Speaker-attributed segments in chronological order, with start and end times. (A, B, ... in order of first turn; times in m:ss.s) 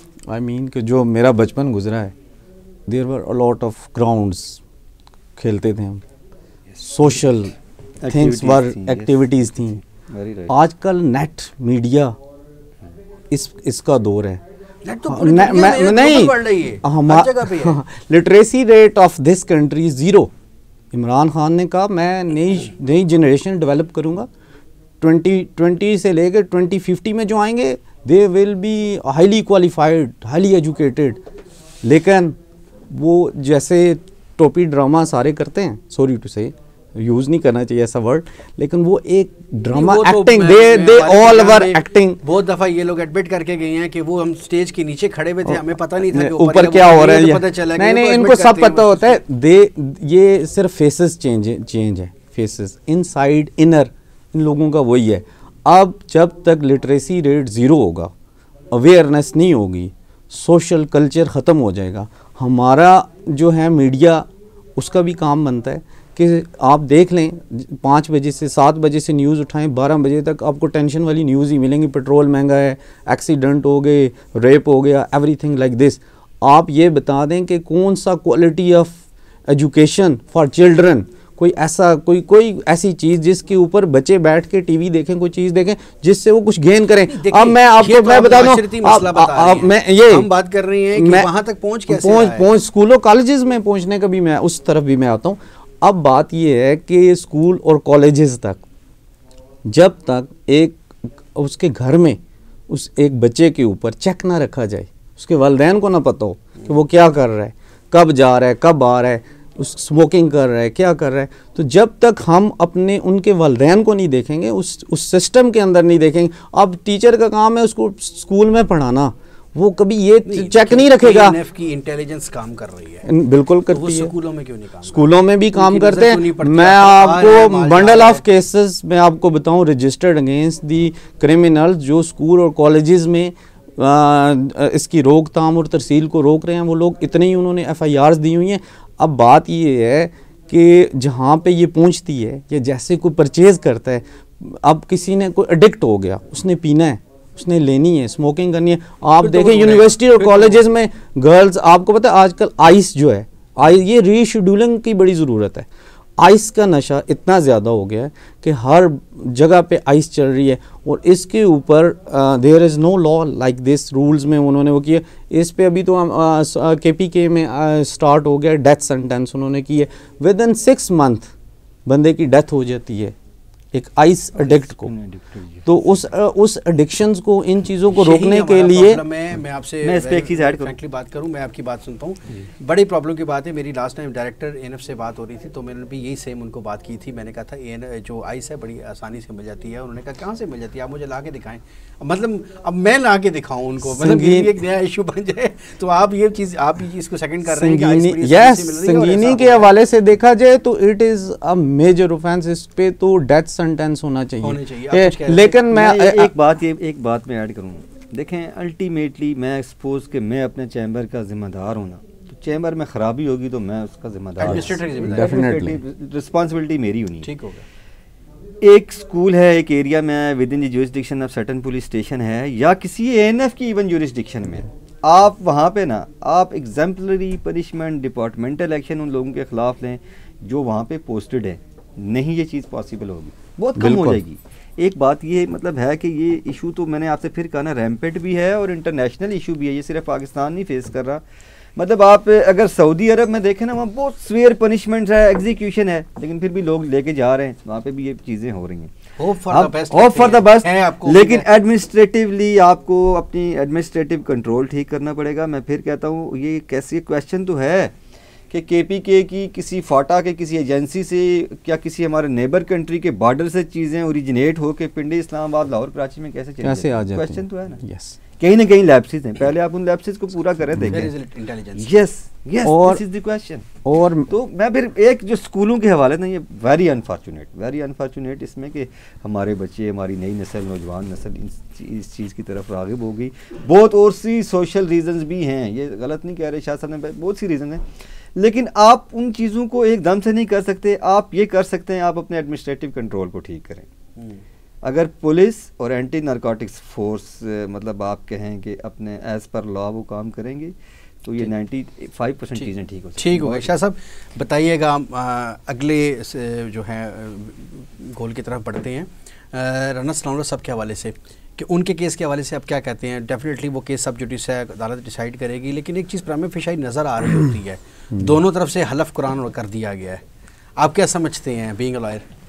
0:00.3-0:02.1 A
0:02.9-0:04.6 A
0:05.4-0:06.0 A
0:06.8-0:07.6 A
0:08.0-0:10.5 B
0:08.1-0:09.8 A
0:10.5-0:12.1 A
0:13.3-0:14.4 A
0:14.8-0:17.8 C
0:15.1-0:20.3 A
0:20.9-0:24.3 A
0:25.0-0:31.2 A
0:31.8-0:32.4 A
0:32.9-0:42.2 A
0:39.7-0:49.2 C
0:45.5-0:58.1 A
0:58.7-1:30.3 A
1:27.1-1:32.5 C
1:31.0-1:31.3 A
1:31.9-1:38.6 A
1:39.6-2:01.4 A
2:00.2-2:03.1 C
2:03.0-2:04.1 A
2:03.7-2:08.2 C
2:04.9-2:51.3 A
2:29.2-2:30.6 C
2:51.9-2:53.1 A
2:53.7-2:54.9 A
2:54.4-2:55.7 B
2:55.6-2:59.0 A
2:57.9-3:19.7 C
2:59.8-3:00.8 B
3:13.8-3:14.6 A
3:17.4-3:26.3 A
3:24.4-3:25.6 C
3:25.7-3:37.3 B
3:34.4-3:35.6 C
3:34.4-3:35.8 A
3:37.2-3:37.6 C
3:38.6-4:01.2 B
3:53.8-3:54.2 A
4:01.8-4:08.9 B
4:09.2-4:11.5 C
4:09.5-4:17.9 B
4:18.5-4:27.8 B
4:26.6-4:28.2 A
4:28.4-4:31.1 B
4:30.8-4:31.9 C
4:31.8-4:53.9 B
4:32.6-4:33.0 A
4:33.8-4:34.3 A
4:54.8-5:03.7 B
5:02.6-5:20.2 C
5:20.8-5:22.3 C